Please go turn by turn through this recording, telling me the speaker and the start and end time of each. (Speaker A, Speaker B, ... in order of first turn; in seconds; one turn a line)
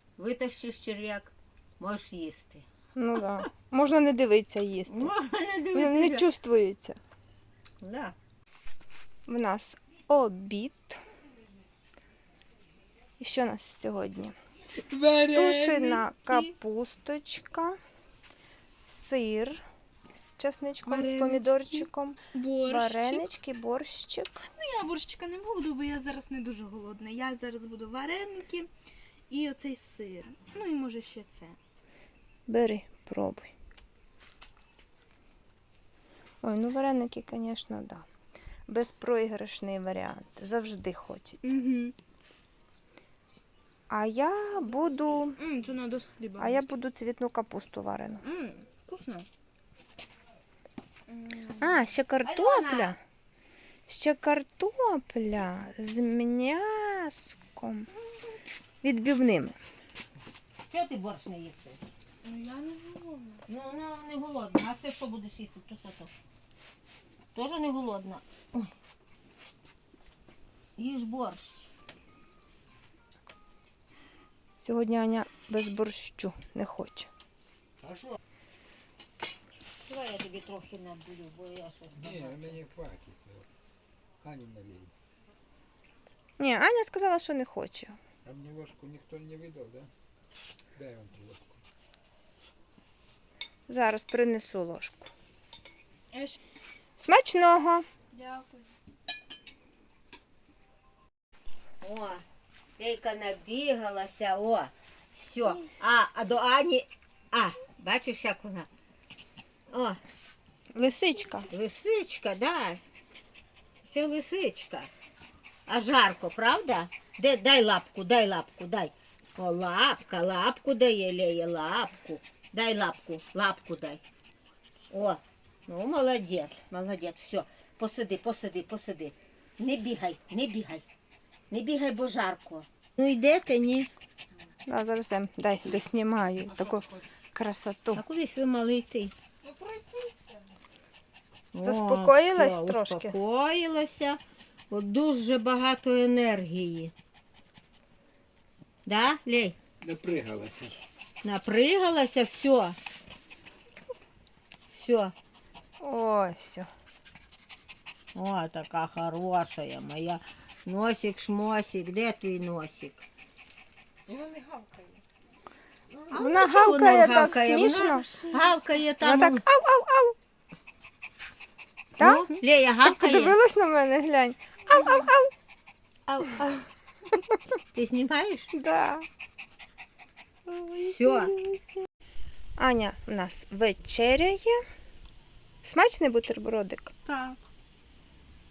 Speaker A: 0.2-2.7
Speaker B: 2.9-5.1
Speaker A: 4.9-6.2
Speaker B: 5.7-7.0
Speaker A: 7.8-8.1
Speaker B: 9.3-11.0
Speaker B: 13.2-14.3
Speaker C: 14.8-15.9
Speaker B: 15.3-17.8
Speaker D: 15.9-16.5
Speaker B: 18.9-24.4
Speaker D: 20.9-21.8
Speaker D: 22.3-23.3
Speaker D: 24.4-28.7
Speaker D: 29.3-31.6
Speaker B: 32.5-33.5
Speaker B: 36.4-38.1
Speaker B: 38.7-41.6
Speaker D: 41.4-41.9
Speaker B: 43.9-45.4
Speaker D: 45.4-46.6
Speaker B: 46.4-48.2
Speaker D: 48.2-49.3
Speaker D: 51.1-51.6
Speaker B: 51.5-53.0
Speaker A: 52.2-52.9
Speaker B: 53.9-57.9
Speaker B: 58.8-59.6
Speaker A: 60.7-61.8
Speaker D: 62.2-63.4
Speaker A: 63.5-66.1
Speaker A: 67.3-68.7
Speaker A: 70.8-71.7
Speaker B: 74.6-77.1
Speaker C: 77.8-78.2
Speaker A: 79.9-82.6
Speaker C: 82.0-83.5
Speaker C: 84.2-84.9
Speaker B: 86.4-88.0
Speaker C: 88.2-89.9
Speaker C: 90.8-91.6
Speaker B: 93.7-95.1
Speaker B: 97.0-97.9
Speaker D: 98.1-98.7
Speaker A: 101.8-102.2
Speaker A: 102.8-108.7
Speaker A: 109.7-110.0
Speaker B: 110.8-111.5
Speaker A: 111.5-112.8
Speaker A: 113.8-114.9
Speaker A: 115.7-124.0
Speaker A: 124.9-130.8
Speaker A: 131.5-133.9
Speaker B: 134.7-138.0
Speaker A: 137.9-139.1
Speaker D: 139.4-140.5
Speaker A: 141.5-146.9
Speaker B: 141.6-143.2
Speaker A: 148.9-149.6
Speaker C: 149.8-150.8
Speaker A: 151.2-152.8
Speaker A: 154.7-155.1
Speaker B: 155.8-156.7
Speaker A: 158.2-163.0
Speaker D: 164.1-165.0
Speaker A: 166.1-169.4
Speaker B: 166.1-168.3
Speaker D: 167.6-168.3
Speaker B: 169.0-170.2
Speaker B: 172.0-172.3
Speaker A: 172.0-173.4
Speaker B: 172.8-175.3
Speaker A: 176.1-176.5
Speaker A: 177.7-178.5
Speaker B: 178.5-179.1
Speaker B: 180.5-181.6
Speaker A: 180.7-181.3
Speaker B: 182.6-184.6
Speaker B: 185.6-186.9
Speaker D: 187.1-187.4